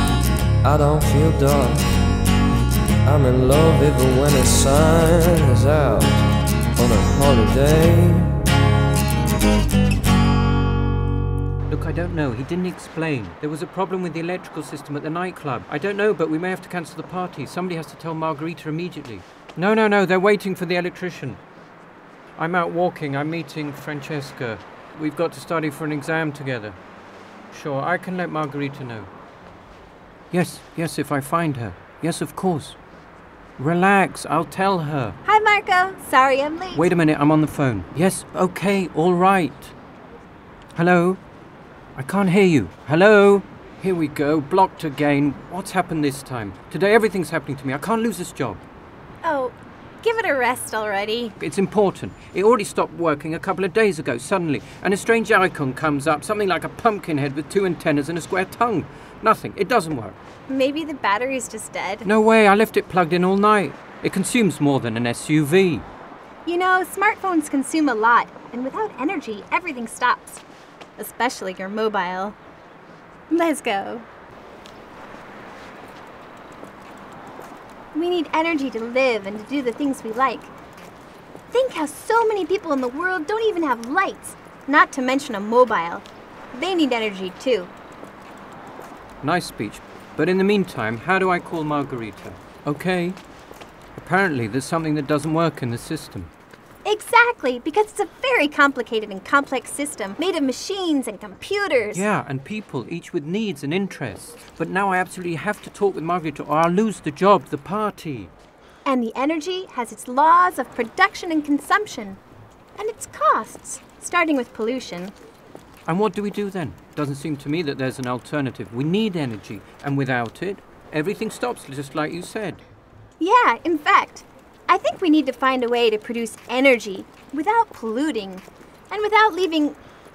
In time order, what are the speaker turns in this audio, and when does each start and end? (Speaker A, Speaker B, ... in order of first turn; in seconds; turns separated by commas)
Speaker A: 0.6-2.0, Speaker A: 3.0-8.4, Speaker B: 11.7-21.4, Speaker B: 22.4-26.8, Speaker B: 27.5-29.1, Speaker B: 30.3-32.8, Speaker B: 33.6-35.2, Speaker C: 35.2-36.9, Speaker B: 36.7-39.7, Speaker B: 40.7-41.2, Speaker B: 42.0-48.6, Speaker C: 49.2-51.4, Speaker B: 51.4-60.2, Speaker C: 60.5-62.1, Speaker B: 62.0-65.8, Speaker C: 66.4-70.4, Speaker C: 71.0-72.4, Speaker C: 73.3-74.0, Speaker C: 77.9-80.5, Speaker C: 81.5-87.7, Speaker B: 89.2-93.2, Speaker B: 94.0-96.3, Speaker C: 96.8-102.0, Speaker B: 101.9-108.3, Speaker C: 108.8-112.2, Speaker C: 112.8-115.1, Speaker B: 115.9-122.6, Speaker C: 123.2-129.8